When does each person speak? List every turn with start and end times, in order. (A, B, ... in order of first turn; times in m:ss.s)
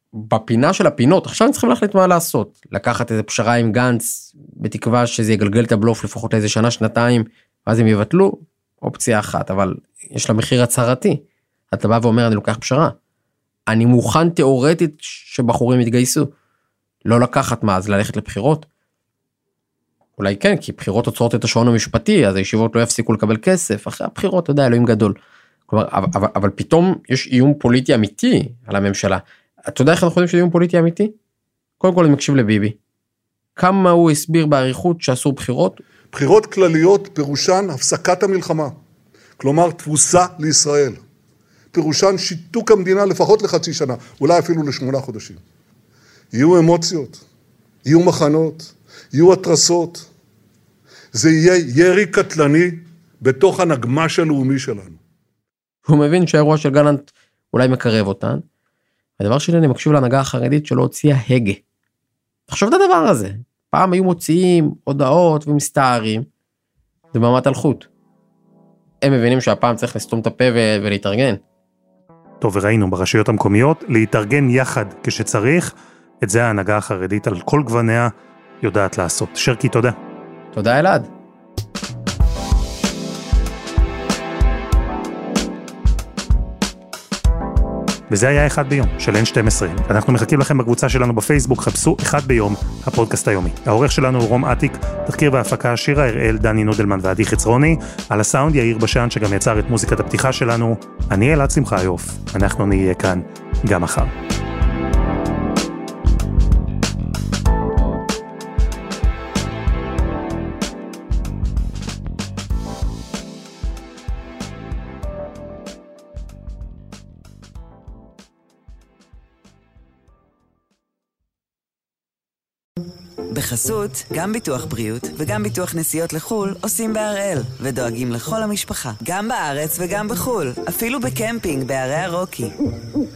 0:00.1-0:13.0 A
0:13.7-0:16.3 A
0:17.0-0:18.7 A
0:20.2-0:31.1 A
0:31.8-0:32.8 A
0:33.6-0:35.8 A
0:36.1-0:38.7 B
0:39.4-0:41.0 B
0:41.7-0:45.4 B
0:46.3-0:47.2 B
0:47.8-0:50.1 B
0:51.1-0:55.0 B
0:55.8-0:58.4 A
0:59.2-1:01.6 A
1:02.5-1:06.3 A
1:07.1-1:07.9 A
1:09.0-1:11.4 A
1:12.4-1:19.9 C
1:20.5-1:21.1 A
1:28.1-1:44.1 C
2:03.3-2:12.5 D